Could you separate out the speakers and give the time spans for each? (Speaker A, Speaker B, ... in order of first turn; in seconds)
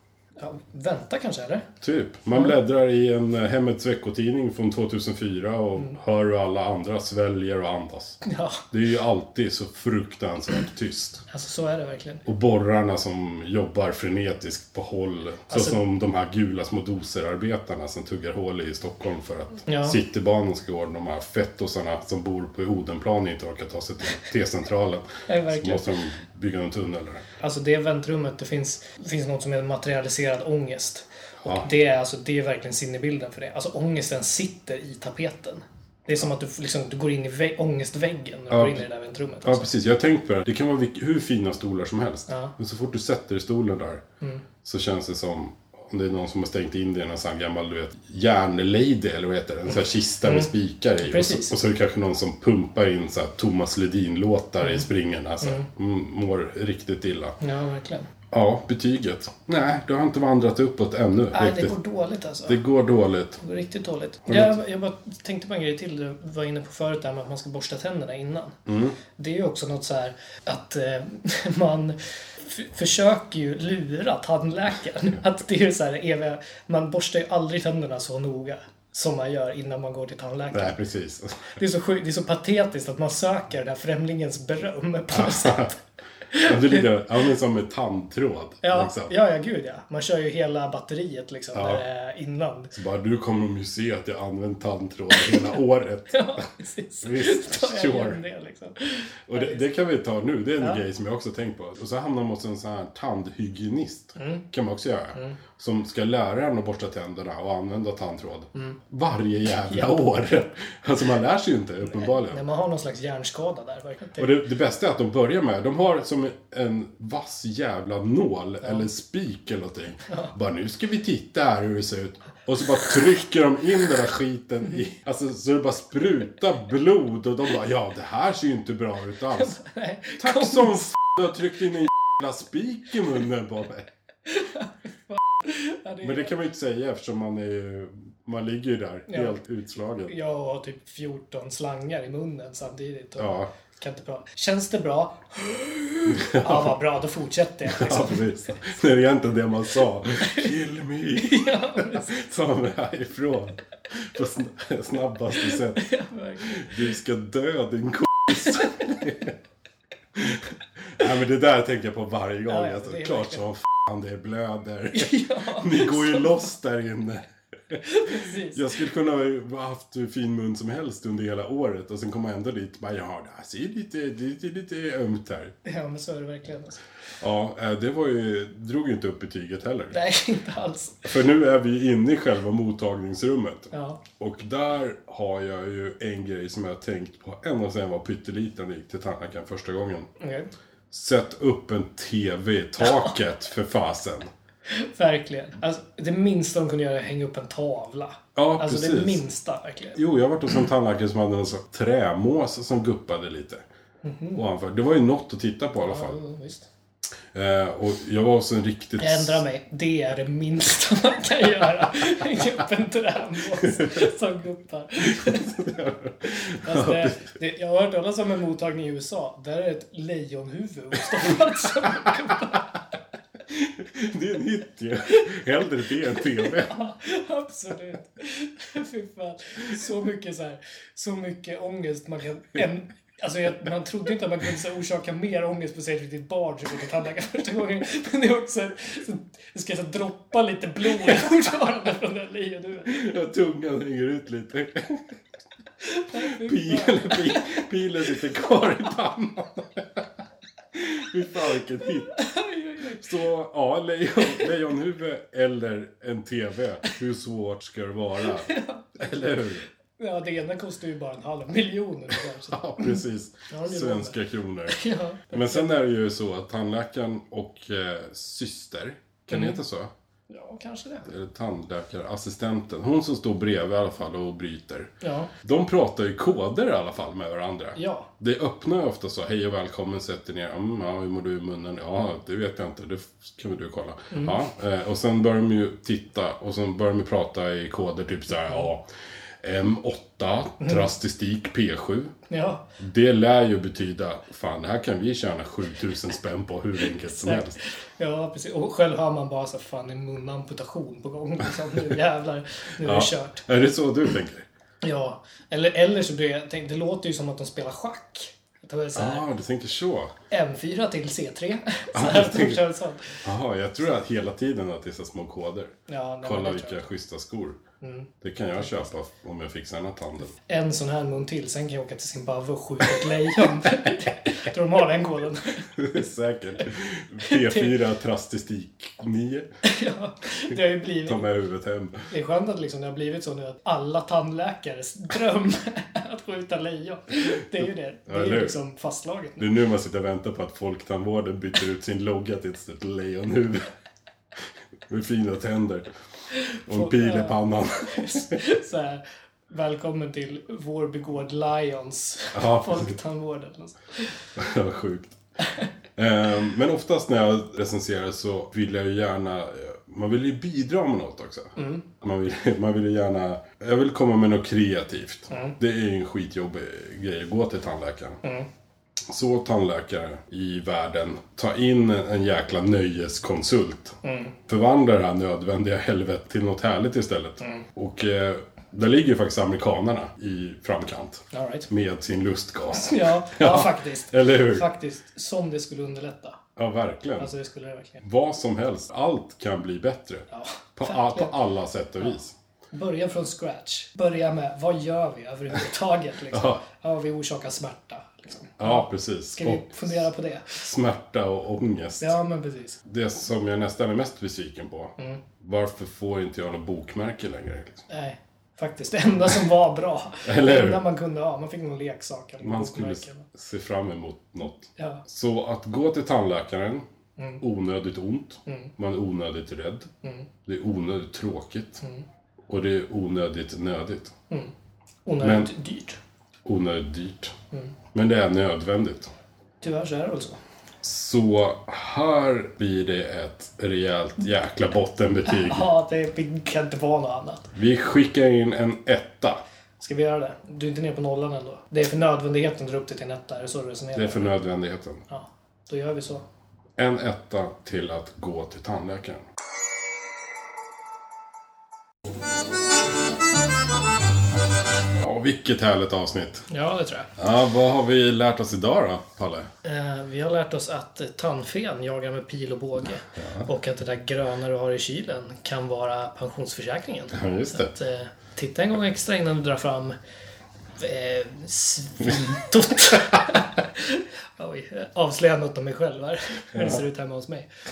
Speaker A: 0.4-1.7, 8.2-8.7, 11.3-12.2, 15.5-15.8, 19.7-20.0, 25.3-25.8, 27.4-39.7, 42.3-42.5, 50.2-50.5, 51.0-51.5, 54.6-54.9, 55.4-55.6, 57.4-58.1, 61.3-62.6, 63.4-68.6, 69.2-80.8, 81.5-86.9, 88.6-92.7, 96.1-99.6, 104.2-104.4, 111.9-114.4, 118.6-118.9, 120.1-120.3, 129.3-130.9, 134.3-136.3, 139.1-139.4, 140.1-148.6, 150.2-150.5, 151.2-152.1, 155.4-156.9, 158.4-159.1, 162.5-163.4, 164.9-166.4, 167.8-168.8, 175.6-176.8, 179.9-181.1, 183.7-184.0, 190.2-190.5, 192.8-193.1, 194.7-200.0, 204.0-204.4, 205.8-206.7, 209.0-215.5, 216.6-222.8, 226.3-243.0, 245.8-247.5, 252.1-253.0, 258.2-259.4, 260.0-265.7, 269.3-269.6, 270.3-271.1, 275.0-275.3, 277.8-278.1, 284.1-284.4, 290.6-290.9, 292.3-292.6, 297.0-303.4, 304.8-309.3, 310.3-313.2, 315.9-316.8, 317.8-318.6, 320.4-325.9, 327.2-327.8, 329.6-331.3, 332.1-339.5, 346.3-354.1, 361.6-361.8, 365.3-365.6, 368.2-368.5, 374.0-374.4, 381.3-381.7, 382.7-386.4, 387.2-388.0, 390.3-391.4, 392.7-400.6, 402.0-402.8, 407.9-413.2, 414.8-415.0, 418.4-418.7, 420.0-420.3, 425.1-426.0, 429.6-430.4, 435.3-437.5, 439.8-444.4, 445.1-446.2, 456.5-457.1, 459.6-469.9, 470.8-477.5
Speaker B: 1.8-11.2, 12.2-27.2, 38.5-38.8, 39.4-44.0, 44.6-57.4, 58.3-61.7, 62.5-63.4, 64.2-64.6, 68.7-69.0, 80.5-81.5, 85.1-85.7, 86.4-89.1, 91.5-91.8, 92.7-96.4, 97.0-98.2, 99.3-112.4, 114.2-129.6, 130.2-133.9, 136.0-140.1, 143.2-143.5, 146.1-146.8, 147.7-159.3, 160.1-175.5, 177.2-179.9, 181.0-190.1, 190.9-194.3, 198.3-199.2, 199.9-203.6, 204.3-206.2, 207.3-209.4, 213.6-214.0, 215.0-217.2, 221.2-222.6, 223.5-226.8, 240.9-241.4, 242.9-245.2, 246.1-250.1, 250.7-252.2, 252.8-259.7, 262.5-269.9, 271.1-288.9, 289.4-292.1, 292.8-297.6, 302.8-304.4, 308.9-310.1, 311.9-312.6, 313.2-317.6, 318.2-320.3, 325.7-329.5, 330.5-332.1, 338.1-338.6, 339.4-343.7, 344.9-345.9, 346.6-348.4, 352.3-353.0, 354.4-355.1, 356.0-368.2, 369.1-384.6, 386.6-387.3, 388.0-392.3, 396.3-396.6, 398.6-402.2, 402.8-407.8, 410.2-410.8, 412.4-416.9, 417.4-419.9, 420.4-421.8, 422.5-424.1, 425.2-425.5, 426.4-427.4, 427.9-429.1, 430.8-435.7, 437.5-439.4, 443.9-445.0, 446.8-449.2, 454.9-456.4, 457.2-459.5, 463.2-463.5, 467.1-467.7, 476.5-476.8